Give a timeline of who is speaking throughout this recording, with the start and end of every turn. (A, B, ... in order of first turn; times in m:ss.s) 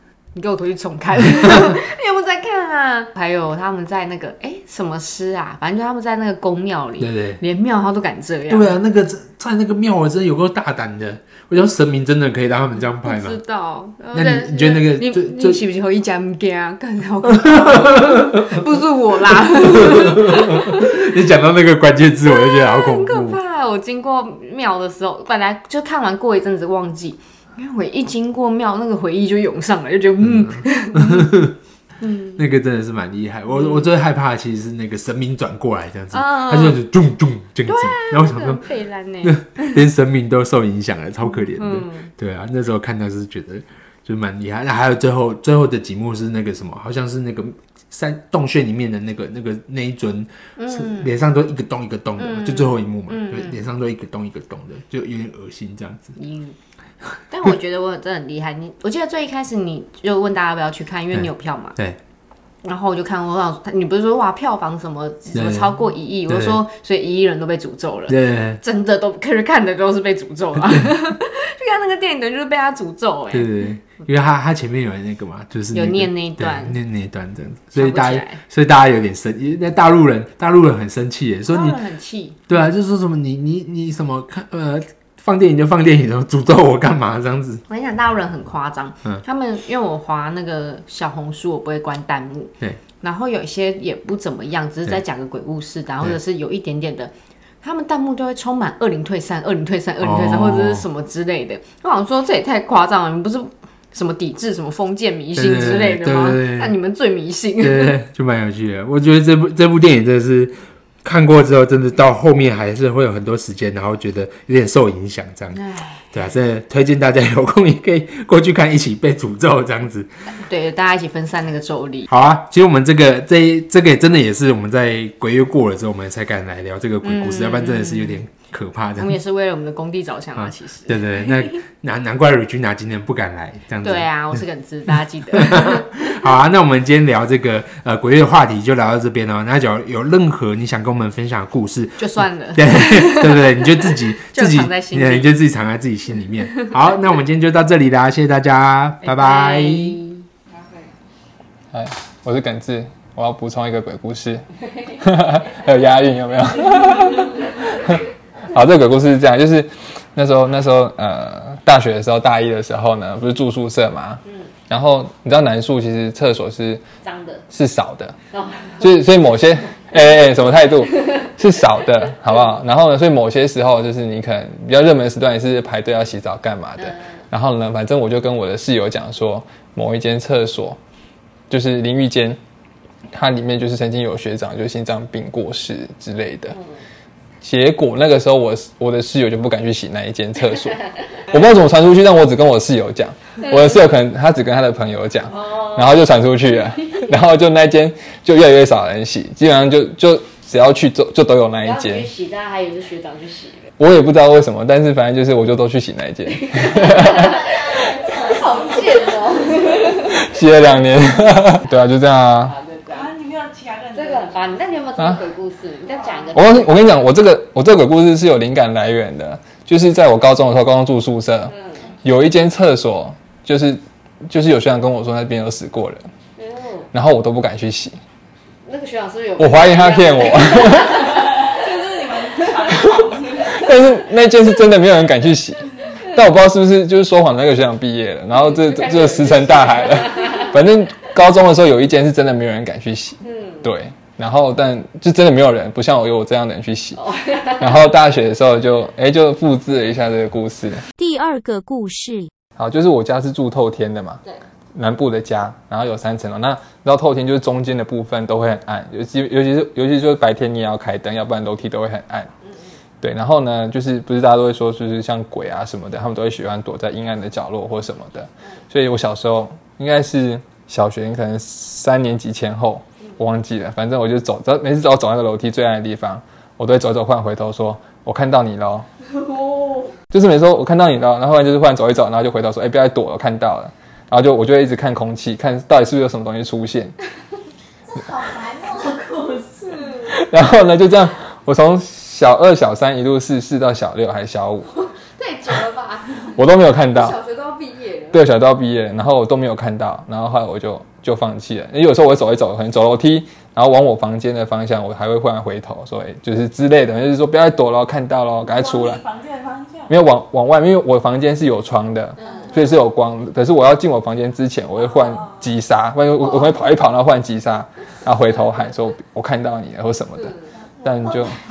0:00.4-0:08.8 A
0:07.0-0:07.4 B
0:08.5-0:13.4 B
0:13.0-0:21.0 A
0:14.1-0:15.6 B
0:17.3-0:18.6 B
0:19.4-0:23.4 B
0:22.2-0:32.4 A
0:30.2-0:31.6 B
0:32.4-0:38.7 B
0:33.5-0:33.9 A
0:36.1-0:36.8 A
0:37.7-0:39.8 A
0:39.2-0:56.2 B
0:41.5-0:42.1 A
0:50.6-0:51.1 A
0:52.2-0:53.6 A
0:56.2-0:56.6 A
0:57.3-1:01.8 A
1:01.1-1:02.0 B
1:02.6-1:13.5 A
1:05.3-1:05.8 B
1:06.3-1:06.6 B
1:08.1-1:08.6 B
1:13.3-1:21.8 B
1:15.7-1:16.8 A
1:17.8-1:18.4 A
1:21.5-1:22.4 A
1:22.5-1:27.6 B
1:27.7-1:48.0 A
1:40.0-1:40.9 B
1:45.4-1:46.8 B
1:47.6-1:55.6 B
1:55.5-1:56.1 A
1:56.1-2:00.1 B
2:00.4-2:02.1 A
2:02.1-2:09.2 B
2:07.0-2:08.2 A
2:09.0-2:11.6 A
2:10.4-2:14.4 B
2:13.8-2:16.2 A
2:15.3-2:30.0 B
2:22.0-2:25.4 A
2:29.0-2:30.2 A
2:30.5-2:30.9 C
2:31.7-2:46.8 D
2:47.0-2:47.4 A
2:47.5-2:48.2 D
2:48.3-2:48.9 A
2:48.8-3:00.8 D
2:56.8-2:57.0 A
3:01.5-3:02.4 D
3:03.1-3:06.6 D
3:07.4-3:22.1 D
3:15.3-3:16.0 A
3:21.6-3:23.7 A
3:23.8-3:27.6 D
3:26.4-3:30.2 A
3:28.0-3:29.4 C
3:29.8-3:32.5 D
3:32.4-3:33.1 A
3:32.9-3:34.7 C
3:33.9-3:37.0 A
3:36.0-3:36.3 C
3:36.3-3:46.0 D
3:41.5-3:41.8 A
3:46.4-3:46.9 A
3:46.9-3:48.0 D
3:48.6-3:51.4 A
3:49.4-3:51.2 D
3:50.9-3:53.9 C
3:52.7-4:10.9 D
3:58.4-4:00.5 A
4:03.2-4:03.7 A
4:07.0-4:07.8 A
4:11.0-4:12.3 E
4:12.6-4:14.2 D
4:14.8-4:22.3 D
4:23.0-4:38.9 D
4:40.1-4:47.0 D
4:48.2-4:48.9 C
4:48.4-4:49.4 E
4:50.0-4:54.7 D
4:54.8-4:56.4 A
4:56.4-4:57.2 D
4:56.9-4:58.3 A
4:58.1-5:09.0 D
5:08.4-5:09.9 C
5:09.9-5:21.4 D
5:12.2-5:12.5 A